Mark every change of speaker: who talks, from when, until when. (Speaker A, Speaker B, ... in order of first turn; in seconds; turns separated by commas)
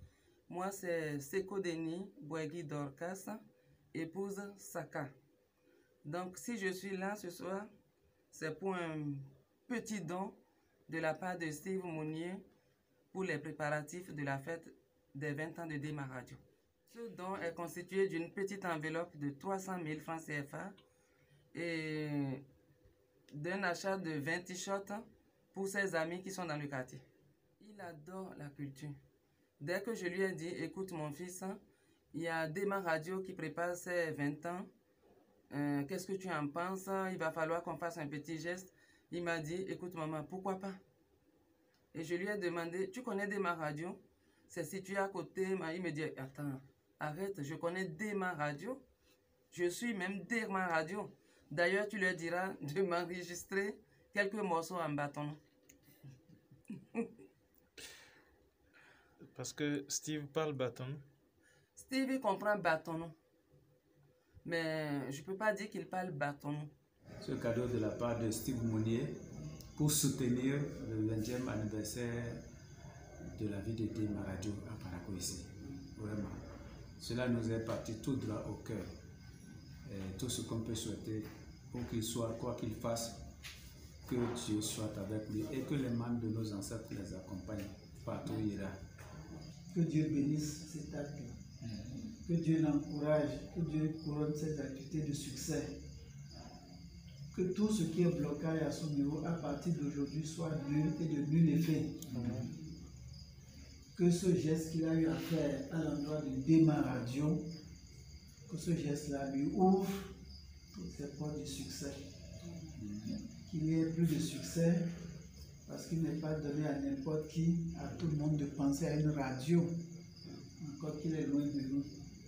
Speaker A: 0.5-3.4, Speaker A: 3.9-5.1, Speaker A: 6.0-7.7, Speaker A: 8.3-12.4, Speaker A: 13.1-20.8, Speaker A: 21.5-22.4, Speaker A: 23.3-27.0, Speaker A: 27.6-29.0, Speaker A: 29.6-31.6, Speaker A: 32.1-34.7, Speaker A: 35.5-40.8, Speaker A: 41.9-48.8, Speaker A: 49.5-55.4, Speaker B: 59.3-61.0, Speaker A: 61.8-63.1, Speaker A: 64.4-66.7, Speaker C: 67.2-69.2, Speaker C: 69.7-72.4, Speaker C: 73.2-76.5, Speaker C: 77.0-78.9, Speaker C: 79.8-83.2, Speaker C: 84.0-88.8, Speaker D: 89.7-91.3, Speaker D: 92.1-95.8, Speaker D: 97.3-102.2, Speaker B: 102.1-102.5, Speaker D: 103.9-107.4, Speaker D: 108.5-110.1, Speaker D: 110.7-112.0, Speaker D: 113.2-114.9, Speaker D: 115.7-119.8, Speaker D: 120.6-121.9